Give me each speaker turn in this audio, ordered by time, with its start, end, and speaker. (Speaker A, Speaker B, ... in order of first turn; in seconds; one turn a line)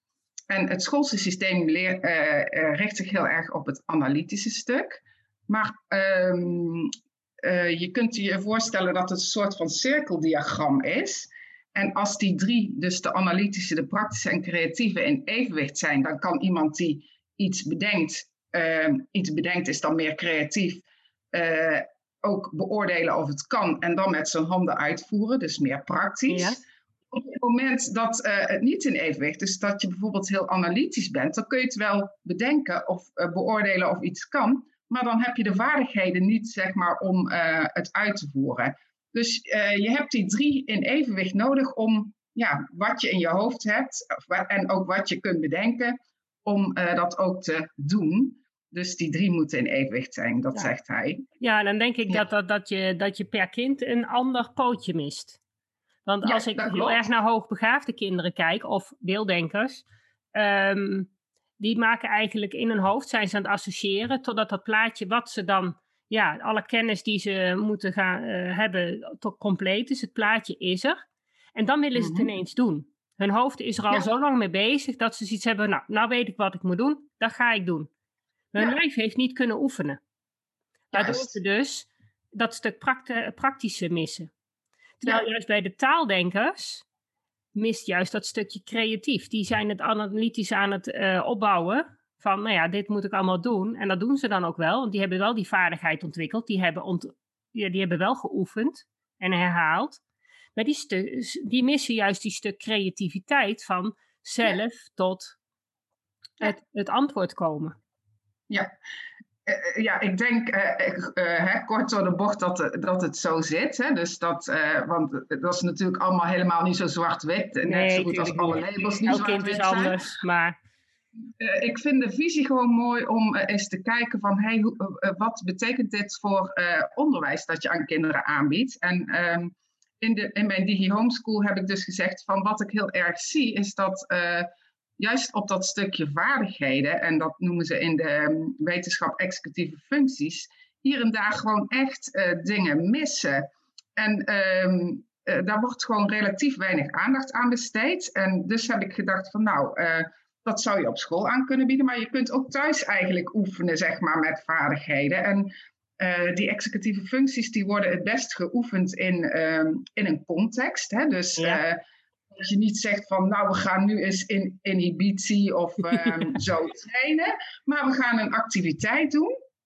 Speaker A: 0.5-26.6
Speaker B: 26.3-26.6
Speaker A: 27.1-51.2
Speaker B: 51.4-55.4
Speaker B: 56.0-59.8
Speaker A: 56.2-57.0
Speaker B: 60.3-71.0
Speaker B: 71.5-77.9
Speaker A: 71.9-72.3
Speaker B: 78.5-80.0
Speaker A: 80.9-81.3
Speaker B: 80.9-84.3
Speaker B: 85.0-86.8
Speaker B: 87.5-100.0
Speaker B: 100.5-105.4
Speaker B: 106.4-107.8
Speaker A: 109.4-120.0
Speaker B: 117.6-120.5
Speaker A: 121.4-169.3
Speaker B: 165.9-166.3